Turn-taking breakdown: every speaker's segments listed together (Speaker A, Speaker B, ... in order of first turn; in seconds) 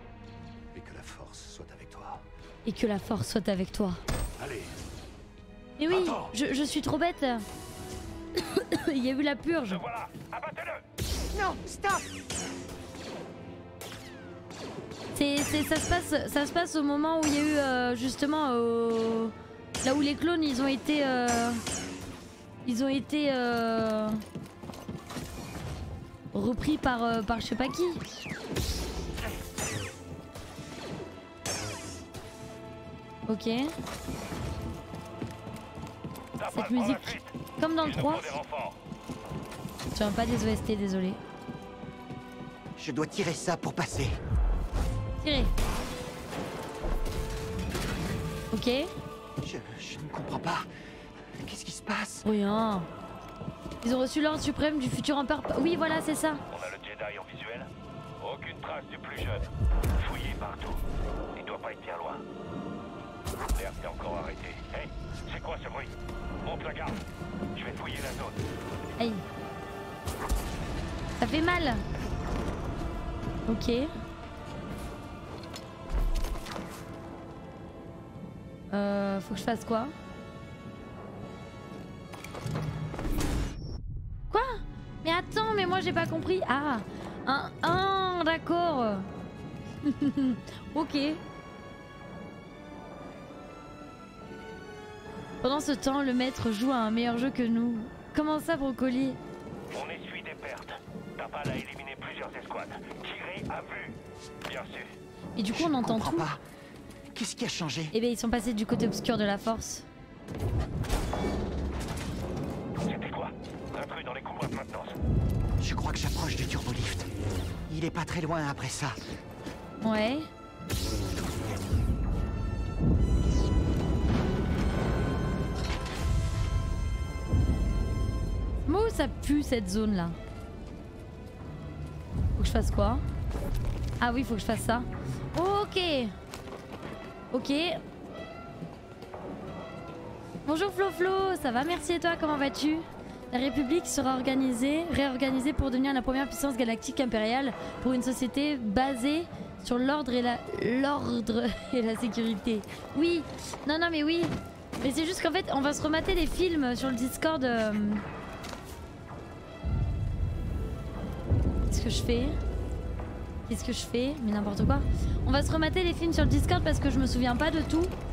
Speaker A: 0.7-2.2, 4.4-4.7, 5.9-6.3
Speaker B: 2.6-4.0, 5.8-7.5, 8.3-9.8, 15.1-21.6, 22.6-24.2, 26.3-28.0, 33.2-33.7, 36.5-38.3, 39.9-41.2, 45.2-45.5, 48.5-48.9, 52.2-52.9, 53.8-56.4, 69.0-69.2, 71.2-71.8, 73.5-73.9, 78.7-79.9, 84.3-89.1, 89.8-91.2, 95.4-99.2, 105.3-106.3, 107.9-109.8, 119.8-120.3, 128.6-130.2, 132.3-133.0, 134.0-136.1, 137.3-137.8, 140.4-158.0, 161.7-162.3, 163.5-167.9
Speaker C: 9.7-10.8, 36.4-38.8, 56.5-60.8, 61.3-62.2, 63.5-67.0, 67.5-68.4, 99.7-104.9, 112.8-115.0
Speaker D: 11.3-12.1, 42.8-44.2, 49.4-50.7, 51.4-52.3, 105.5-106.4, 107.1-107.9, 115.6-117.1, 117.7-119.0